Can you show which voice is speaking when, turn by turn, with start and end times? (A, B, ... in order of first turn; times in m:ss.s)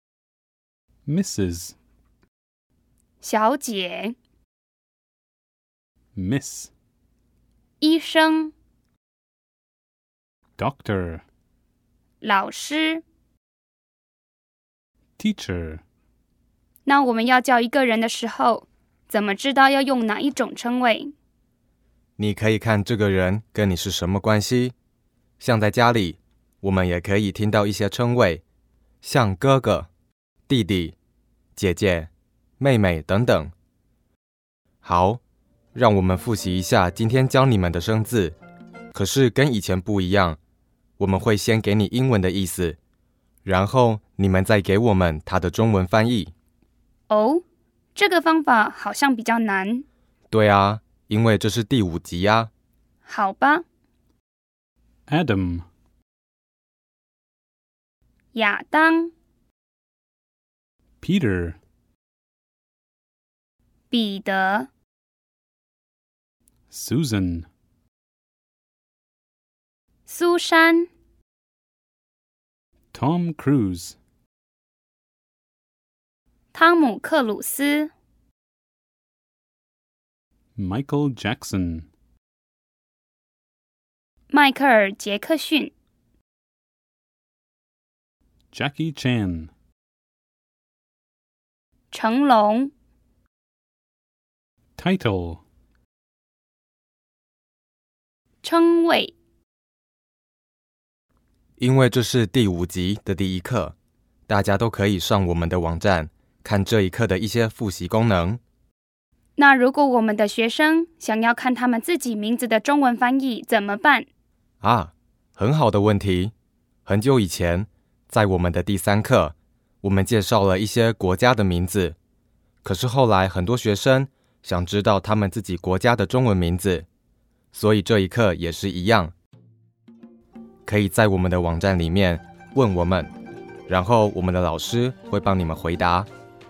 0:01.0-0:01.8 A
0:03.2-0:04.2 B
0:06.2-0:06.7 A
0:07.8-0:08.5 B
0:10.6-0:11.2 A
0:12.2-0:13.0 B
0:15.2-0:15.8 A
0:16.8-0:21.1 B
0:22.2-0:24.7 C
0:25.4-0:28.4 C
0:29.0-0:29.9 C
0:30.5-0:31.0 C
0:31.6-0:33.5 C
0:34.8-0:35.2 C
0:35.7-0:38.4 C
0:38.9-0:40.4 C
0:41.0-0:42.8 C
0:43.4-0:46.3 C
0:47.1-0:47.4 B
0:48.0-0:49.8 B
0:50.3-0:52.5 C
0:53.0-0:53.6 B
0:55.1-0:55.7 A
0:58.3-0:59.1 B
1:01.0-1:01.6 A
1:03.9-1:04.7 B
1:06.7-1:07.5 A
1:10.1-1:10.9 B
1:12.9-1:14.0 A
1:16.5-1:17.9 B
1:20.6-1:21.9 A
1:24.3-1:25.7 B
1:28.5-1:29.5 A
1:31.9-1:32.7 B
1:34.8-1:35.4 A
1:38.4-1:39.1 B
1:41.6-1:43.8 C
1:44.3-1:48.4 C
1:49.4-1:54.1 B
1:54.6-1:56.3 C
1:56.9-2:02.0 C
2:02.6-2:06.9 C
2:07.5-2:09.1 C
2:10.7-2:13.1 C
2:13.7-2:16.1 C